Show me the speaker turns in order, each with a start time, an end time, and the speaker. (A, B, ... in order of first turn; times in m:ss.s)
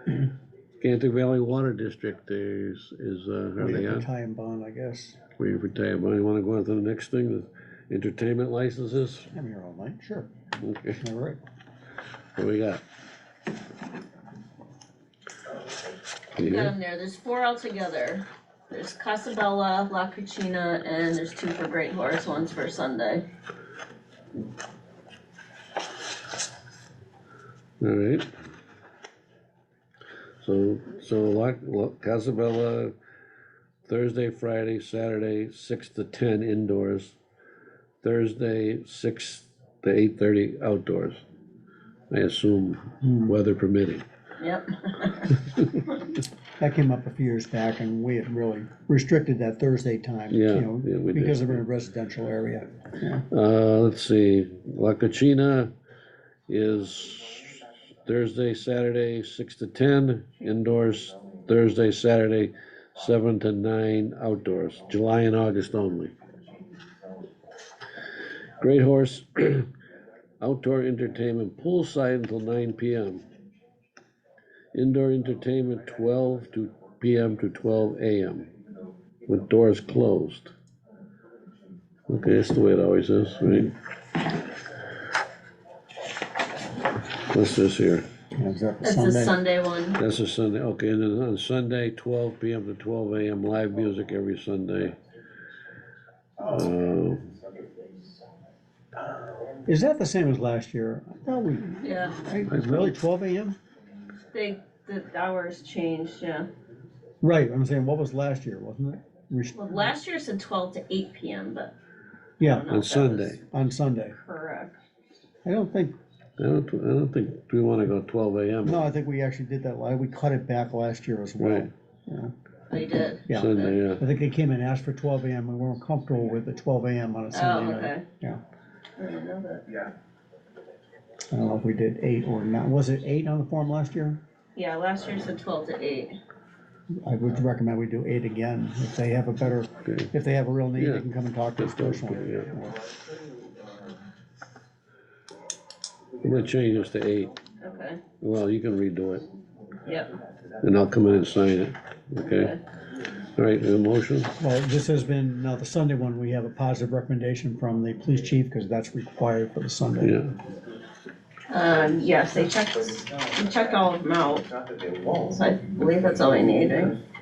0:00.8-0:04.1 A
0:03.6-0:05.2 B
0:05.4-0:09.3 A
0:09.3-0:10.3 B
0:10.6-0:11.0 A
0:11.0-0:11.4 B
0:12.4-0:12.8 A
0:16.4-0:16.7 A
0:16.4-0:23.2 C
0:27.8-0:28.3 A
0:30.4-0:32.9 A
0:33.8-0:37.2 A
0:38.0-0:41.2 A
0:42.1-0:44.0 A
0:43.0-0:43.4 B
0:44.4-0:45.3 C
0:46.6-0:53.2 B
0:50.3-0:51.6 A
0:53.3-0:55.7 A
0:56.5-1:06.1 A
1:08.6-1:09.7 A
1:10.4-1:13.2 A
1:14.7-1:18.5 A
1:19.3-1:20.5 A
1:22.1-1:23.7 A
1:27.3-1:28.1 A
1:28.3-1:29.4 B
1:28.8-1:30.0 C
1:30.0-1:35.0 A
1:36.4-1:37.3 A
1:39.7-1:43.6 B
1:41.8-1:42.2 C
1:42.5-1:42.9 A
1:44.3-1:46.5 C
1:47.2-1:49.7 B
1:49.6-1:51.7 C
1:52.4-1:52.8 B
1:52.4-1:53.4 C
1:52.7-1:53.4 A
1:53.5-1:54.2 B
1:54.2-1:54.8 C
1:55.4-1:56.0 B
1:56.4-1:58.8 A
1:58.6-2:02.3 B
2:01.4-2:01.7 A
2:02.7-2:03.7 C
2:03.3-2:08.4 B
2:03.3-2:04.0 A
2:07.3-2:08.0 C
2:09.0-2:09.8 C
2:11.3-2:14.2 B
2:14.6-2:16.2 C
2:17.0-2:22.8 B
2:20.8-2:21.0 A
2:21.6-2:22.4 A
2:26.2-2:27.4 A
2:27.6-2:28.0 C
2:28.2-2:29.3 A
2:29.8-2:30.1 C
2:30.6-2:32.6 A
2:32.3-2:32.6 C
2:33.4-2:34.3 A
2:34.4-2:40.2 B
2:40.0-2:40.4 A
2:41.5-2:44.5 C
2:45.1-2:47.0 C